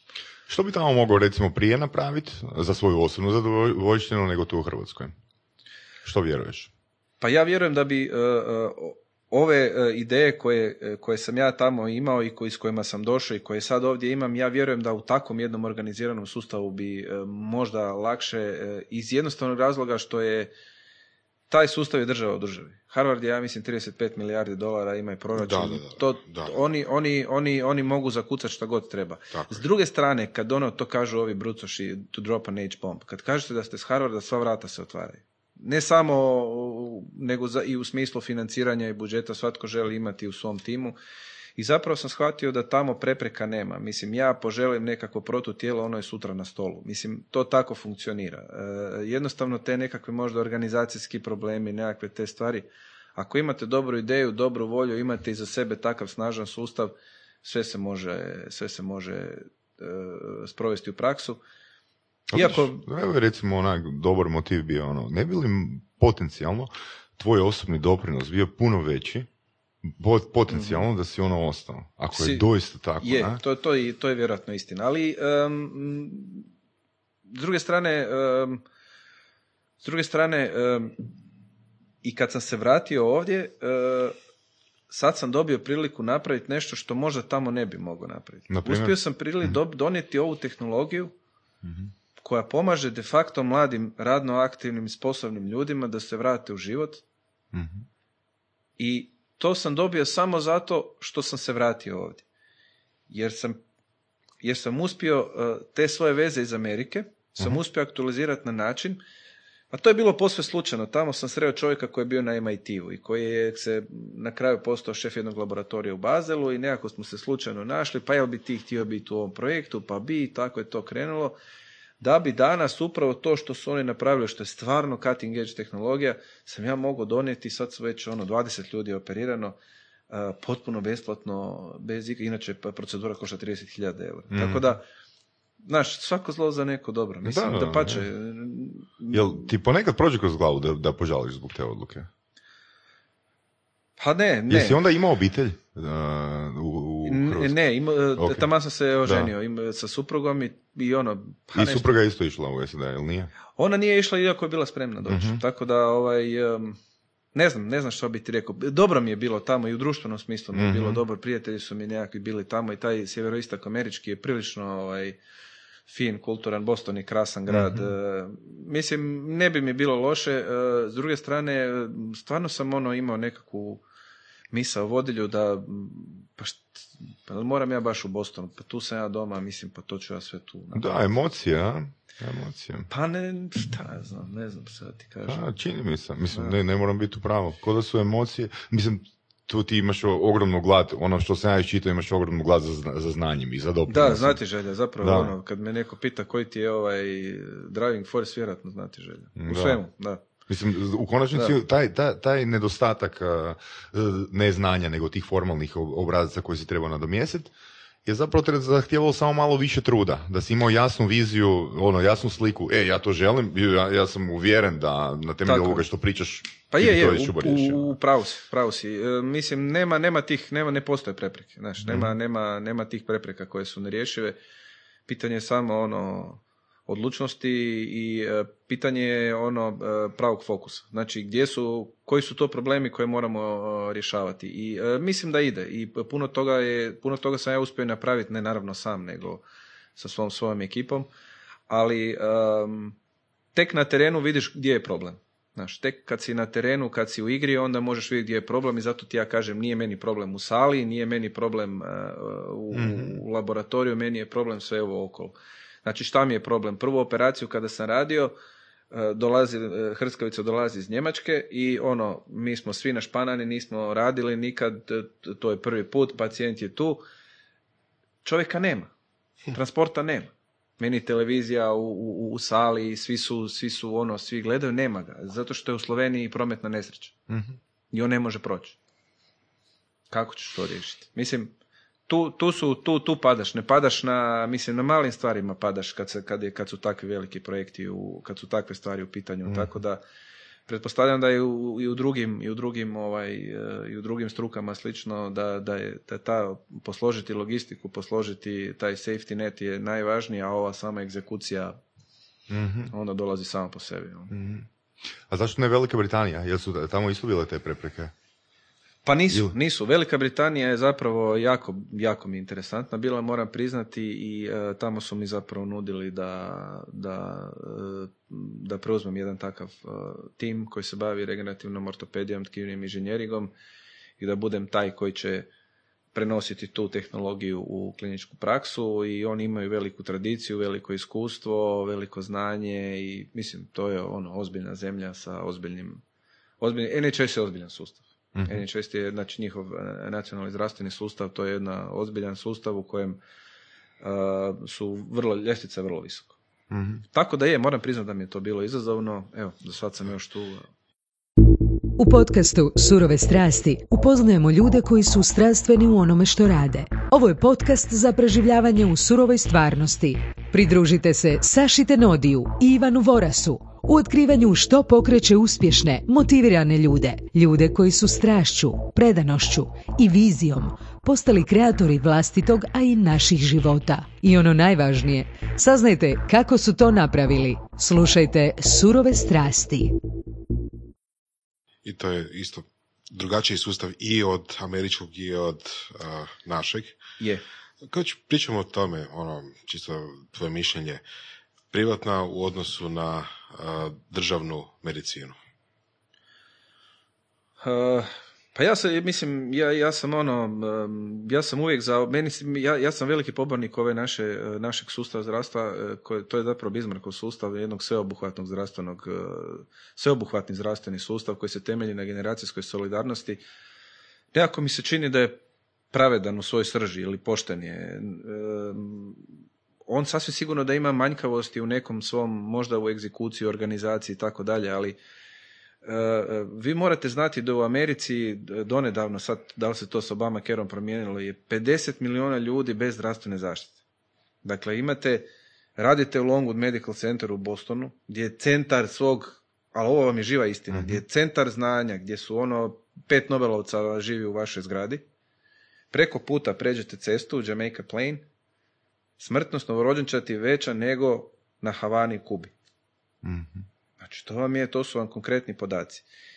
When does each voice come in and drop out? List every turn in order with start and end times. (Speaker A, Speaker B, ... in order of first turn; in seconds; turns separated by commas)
Speaker A: 0.5-5.1, Speaker A: 6.0-6.7, Speaker B: 7.2-20.5, Speaker B: 21.5-41.0, Speaker C: 25.4-26.6, Speaker C: 29.3-29.6, Speaker B: 41.6-61.4, Speaker A: 62.3-69.3, Speaker B: 62.3-62.8, Speaker A: 69.8-73.4, Speaker B: 70.5-70.8, Speaker B: 72.1-72.5, Speaker B: 73.0-76.5, Speaker B: 77.3-78.6, Speaker B: 79.8-81.0, Speaker B: 82.0-84.2, Speaker B: 84.9-91.1, Speaker A: 88.5-89.5, Speaker A: 91.6-91.9, Speaker B: 92.2-97.0, Speaker A: 97.5-97.8, Speaker B: 98.8-102.2, Speaker B: 103.1-103.6, Speaker B: 104.4-109.0, Speaker B: 109.7-121.4, Speaker B: 122.0-129.6, Speaker B: 130.1-134.8, Speaker A: 134.3-134.6, Speaker B: 135.6-139.5, Speaker A: 137.2-138.1, Speaker A: 139.1-142.1, Speaker B: 144.0-144.8, Speaker A: 144.5-147.6, Speaker B: 147.0-151.9, Speaker A: 148.2-148.4, Speaker A: 149.1-149.3, Speaker A: 151.5-153.3, Speaker B: 153.6-156.8, Speaker A: 155.1-155.4, Speaker B: 157.3-165.2, Speaker A: 160.5-161.0, Speaker B: 165.9-173.8, Speaker A: 167.5-167.9, Speaker B: 174.5-181.1, Speaker A: 180.7-182.9, Speaker B: 182.9-185.4, Speaker A: 185.2-194.4, Speaker B: 193.9-200.2, Speaker A: 195.0-195.3, Speaker A: 199.3-199.8, Speaker A: 200.5-207.5, Speaker A: 208.0-217.9, Speaker B: 215.4-215.8, Speaker B: 216.7-224.4, Speaker A: 221.8-222.1, Speaker B: 225.1-239.4, Speaker B: 239.9-241.1, Speaker B: 241.7-242.9, Speaker B: 243.5-258.3, Speaker A: 252.7-253.2, Speaker B: 258.9-267.0, Speaker B: 268.2-268.9, Speaker B: 269.5-277.2, Speaker B: 277.9-278.8, Speaker B: 280.1-281.5, Speaker B: 282.1-290.0, Speaker A: 289.4-289.7, Speaker B: 290.7-301.8, Speaker A: 302.5-302.9, Speaker B: 302.9-304.3, Speaker A: 304.3-304.7, Speaker A: 305.3-308.1, Speaker B: 309.0-323.5, Speaker B: 324.2-325.5, Speaker B: 326.1-336.0, Speaker B: 336.6-343.2, Speaker A: 338.3-338.6, Speaker B: 344.0-346.4, Speaker A: 346.7-347.0, Speaker B: 347.1-350.7, Speaker D: 352.0-379.9, Speaker C: 381.8-387.0, Speaker B: 387.2-387.4, Speaker C: 387.8-391.0, Speaker C: 391.7-395.4, Speaker B: 397.6-413.4, Speaker B: 414.3-415.4, Speaker B: 415.9-419.2, Speaker B: 419.9-425.0, Speaker B: 425.8-433.8, Speaker B: 434.4-445.0, Speaker A: 440.7-441.0, Speaker B: 445.9-448.2, Speaker B: 449.2-452.5, Speaker A: 453.2-453.6, Speaker B: 454.0-456.0